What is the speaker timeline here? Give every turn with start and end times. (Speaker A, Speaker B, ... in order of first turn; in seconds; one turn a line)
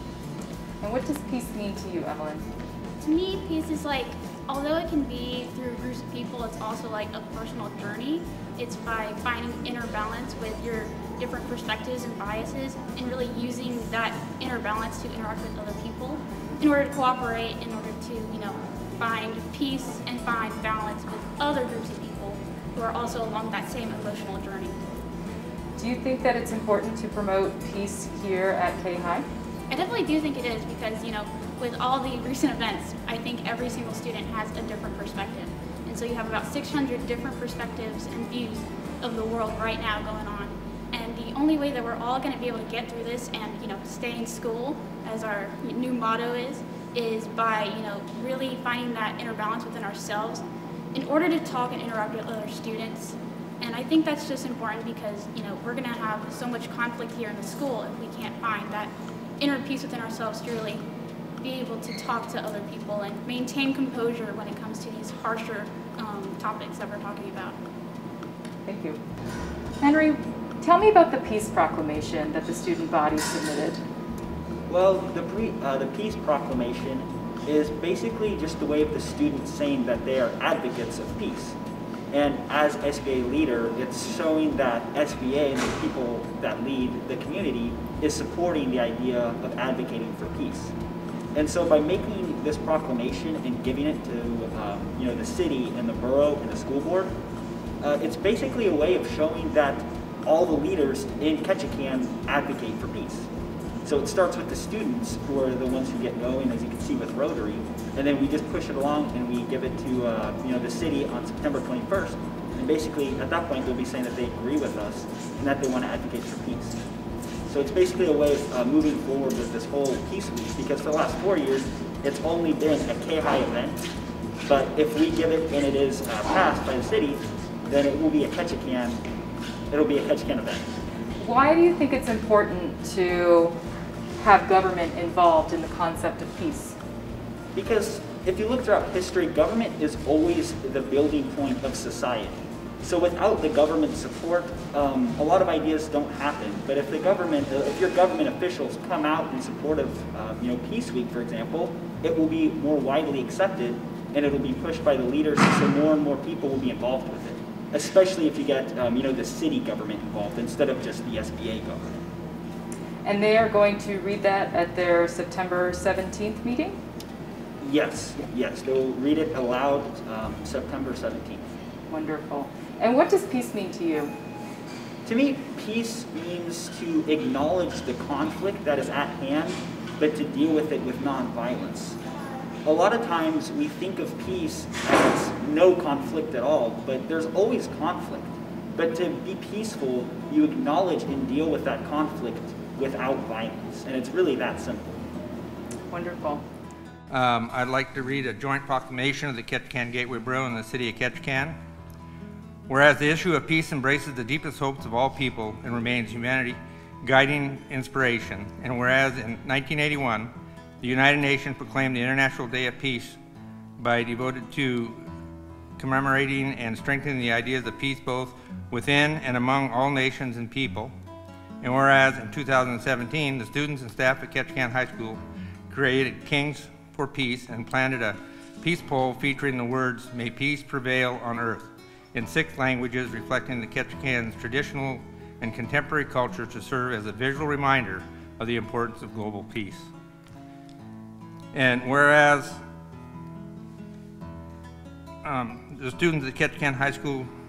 Speaker A: 0.8-2.5
Speaker B: 3.0-24.8
Speaker A: 25.8-29.3
Speaker B: 29.7-50.4
Speaker B: 51.0-60.8
Speaker B: 61.4-67.6
Speaker A: 68.7-69.0
Speaker A: 69.8-73.8
Speaker C: 74.7-81.6
Speaker C: 82.1-90.8
Speaker C: 91.3-97.1
Speaker C: 97.8-103.3
Speaker C: 103.8-116.8
Speaker C: 117.5-123.8
Speaker C: 124.5-129.0
Speaker C: 129.7-130.7
Speaker A: 131.2-133.6
Speaker A: 134.2-136.8
Speaker C: 137.5-162.0
Speaker A: 163.0-166.8
Speaker C: 167.6-171.5
Speaker A: 171.9-174.1
Speaker C: 175.1-182.0
Speaker C: 182.7-195.0
Speaker A: 195.9-196.4
Speaker D: 197.1-201.6
Speaker D: 202.7-213.2
Speaker D: 213.8-215.1
Speaker D: 215.8-220.9
Speaker D: 221.6-239.9
Speaker D: 241.5-242.6
Speaker D: 245.2-247.3